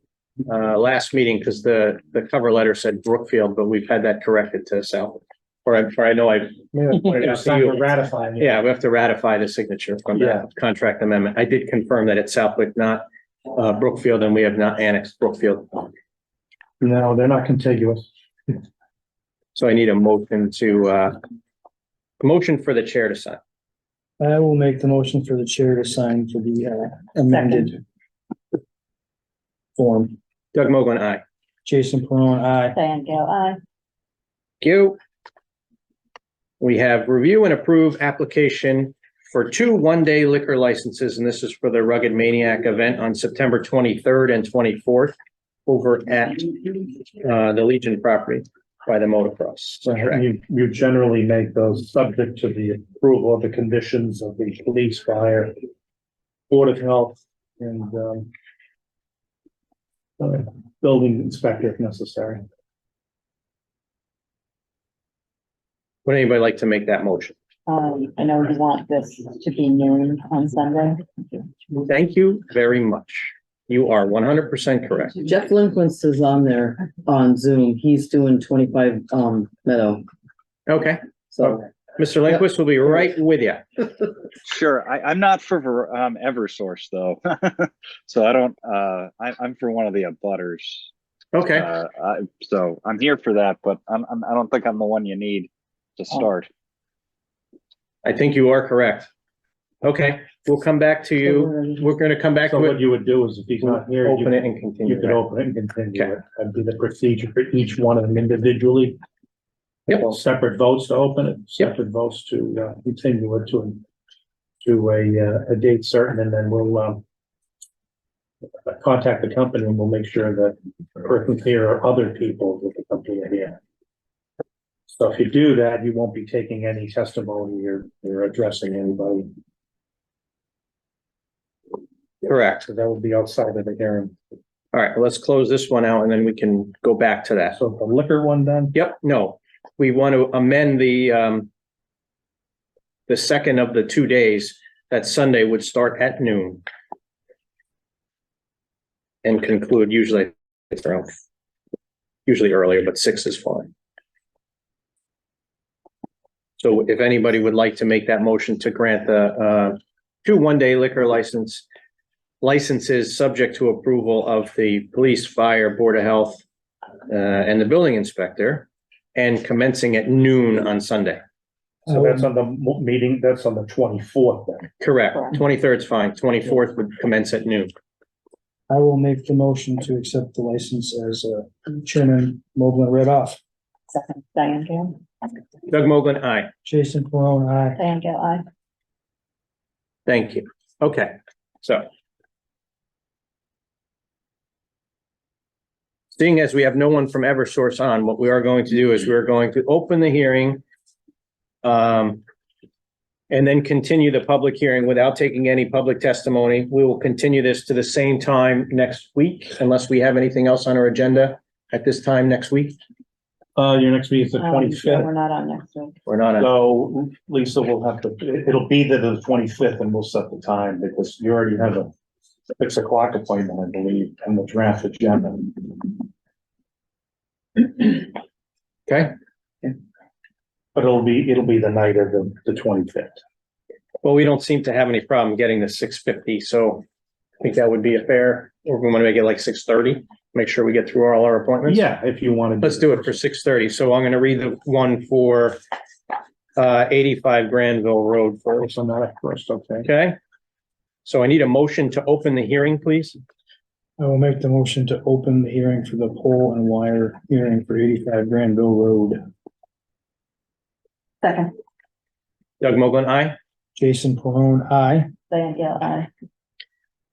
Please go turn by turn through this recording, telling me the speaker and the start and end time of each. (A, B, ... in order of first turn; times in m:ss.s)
0:00.4-0:07.8 A
0:06.9-0:08.5 B
0:08.4-0:15.9 A
0:10.2-0:10.4 B
0:16.8-0:18.1 B
0:19.5-0:21.2 A
0:22.2-0:23.4 A
0:24.2-0:27.8 C
0:27.3-0:27.7 D
0:29.8-0:30.2 C
0:30.5-0:31.2 A
0:31.6-0:32.8 C
0:32.7-0:33.6 D
0:34.6-0:35.0 A
0:36.6-0:45.1 A
0:45.6-0:50.2 A
0:49.8-0:55.5 B
0:56.5-0:58.3 B
1:00.2-1:02.4 B
1:06.0-1:07.3 A
1:07.7-1:11.5 D
1:11.8-1:15.1 A
1:15.2-1:20.0 E
1:20.7-1:23.9 A
1:21.3-1:21.6 E
1:24.4-1:30.9 F
1:31.3-1:31.7 A
1:31.5-1:36.5 F
1:38.0-1:39.1 A
1:39.8-1:42.8 A
1:41.2-1:41.8 E
1:42.4-1:49.0 B
1:43.6-1:45.2 A
1:49.9-1:53.8 B
1:54.6-1:57.0 B
1:58.6-2:03.6 B
2:04.9-2:09.3 B
2:12.2-2:12.6 A
2:12.6-2:14.2 B
2:14.7-2:17.6 A
2:17.5-2:18.7 B
2:18.7-2:21.5 A
2:23.1-2:26.6 A
2:29.2-2:31.1 A
2:32.2-2:33.7 A
2:36.6-2:41.6 A
2:42.4-2:46.4 A
2:47.1-2:51.2 A
2:51.9-2:52.3 C
2:51.9-2:54.7 B
2:54.8-2:57.7 A
2:55.1-2:55.4 D
2:58.7-3:03.4 C
3:03.9-3:05.0 D
3:05.7-3:06.5 A
3:06.6-3:07.8 C
3:07.8-3:08.4 D
3:10.0-3:11.8 A
3:16.1-3:20.6 A
3:21.6-3:22.2 A
3:23.3-3:32.8 A
3:33.6-3:35.1 B
3:34.4-3:36.0 D
3:36.0-3:36.5 A
3:36.4-3:41.9 B
3:42.6-3:46.0 B
3:48.9-3:49.1 A
3:50.7-3:53.2 B
3:54.0-3:56.8 A
3:57.4-4:01.9 A
4:01.6-4:03.2 B
4:02.6-4:05.6 A
4:06.6-4:08.7 A
4:08.6-4:09.9 B
4:09.8-4:10.2 A
4:11.0-4:13.2 A
4:14.0-4:19.2 C
4:21.2-4:21.5 D
4:22.6-4:23.4 A
4:23.8-4:25.1 C
4:25.3-4:26.1 D